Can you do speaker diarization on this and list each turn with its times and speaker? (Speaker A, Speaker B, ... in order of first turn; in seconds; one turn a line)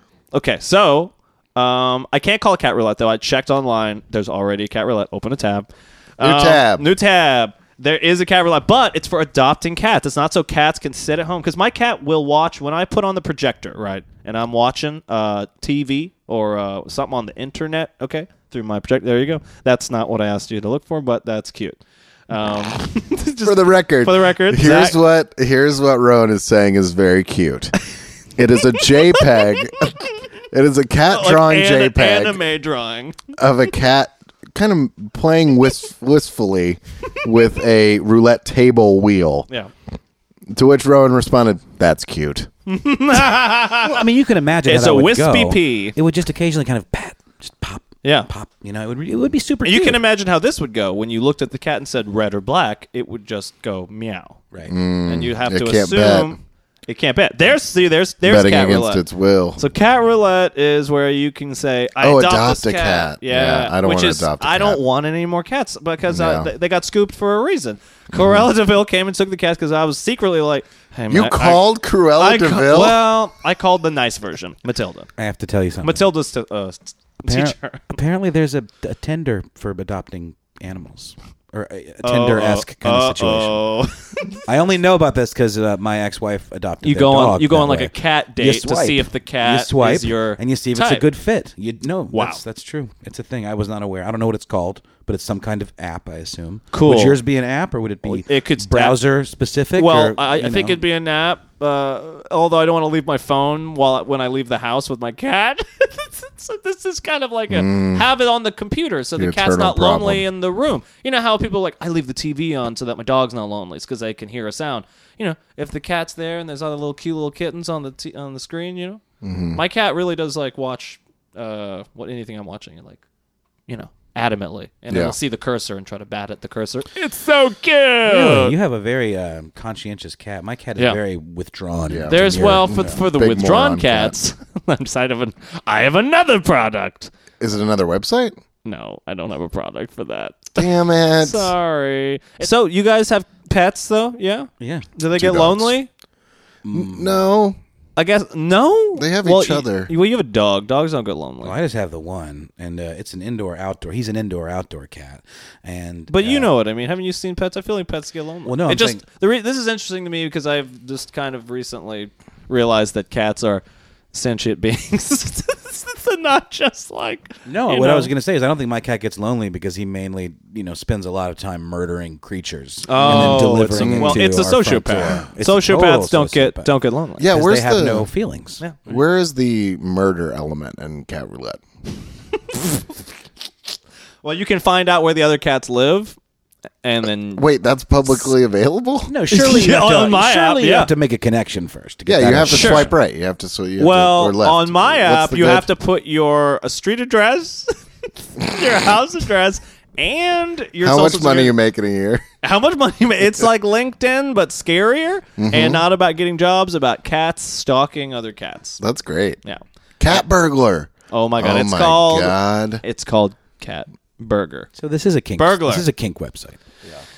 Speaker A: 0.3-25.0
Speaker B: 6.2-6.9
Speaker B: 23.4-27.7
Speaker B: 28.4-30.0
Speaker A: 29.1-29.5
Speaker B: 30.5-32.4
Speaker A: 31.1-33.2
Speaker B: 33.4-39.5
Speaker B: 40.5-42.5
Speaker A: 42.7-44.0
Speaker C: 43.8-50.0
Speaker A: 44.7-46.0
Speaker A: 48.0-48.3
Speaker A: 49.6-54.4
Speaker B: 54.7-56.4
Speaker A: 55.1-59.0
Speaker B: 58.2-59.6
Speaker A: 59.6-71.6
Speaker B: 62.0-64.8
Speaker B: 66.1-66.5
Speaker B: 68.1-68.5
Speaker B: 71.1-73.0
Speaker A: 72.2-75.1
Speaker C: 75.2-76.0
Speaker A: 75.8-78.0
Speaker C: 77.3-83.6
Speaker A: 82.0-84.4
Speaker C: 84.5-100.8
Speaker A: 86.8-91.0
Speaker A: 92.1-92.4
Speaker A: 96.7-97.2
Speaker A: 98.0-99.0
Speaker A: 99.8-119.0
Speaker B: 107.5-108.1
Speaker B: 109.2-110.3
Speaker B: 119.2-119.6
Speaker A: 119.5-123.0
Speaker A: 123.7-128.6
Speaker B: 124.9-125.2
Speaker C: 128.1-133.0
Speaker B: 131.9-134.2
Speaker A: 132.1-137.1
Speaker B: 137.4-138.3
Speaker A: 138.7-145.9
Speaker B: 140.6-141.5
Speaker C: 144.6-144.9
Speaker B: 145.2-145.8
Speaker C: 146.6-147.2
Speaker B: 146.7-147.6
Speaker A: 148.0-151.6
Speaker B: 149.0-149.9
Speaker C: 151.4-156.5
Speaker A: 156.1-168.1
Speaker C: 158.5-159.0
Speaker C: 167.5-176.7
Speaker A: 172.9-177.3
Speaker B: 173.0-174.2
Speaker B: 175.0-175.2
Speaker B: 177.2-178.1
Speaker C: 177.2-178.6
Speaker A: 178.6-178.9
Speaker B: 178.9-181.6
Speaker A: 184.2-186.2
Speaker A: 186.8-187.5
Speaker B: 187.4-189.1
Speaker C: 189.1-192.9
Speaker A: 189.3-190.9
Speaker B: 192.1-195.7
Speaker A: 192.5-192.9
Speaker A: 193.8-197.8
Speaker A: 198.3-201.6
Speaker B: 200.8-202.2
Speaker A: 202.4-208.8
Speaker B: 205.4-205.8
Speaker B: 208.8-209.4
Speaker A: 209.4-210.2
Speaker B: 210.0-212.8
Speaker A: 211.1-214.7
Speaker C: 214.8-216.6
Speaker A: 215.4-215.9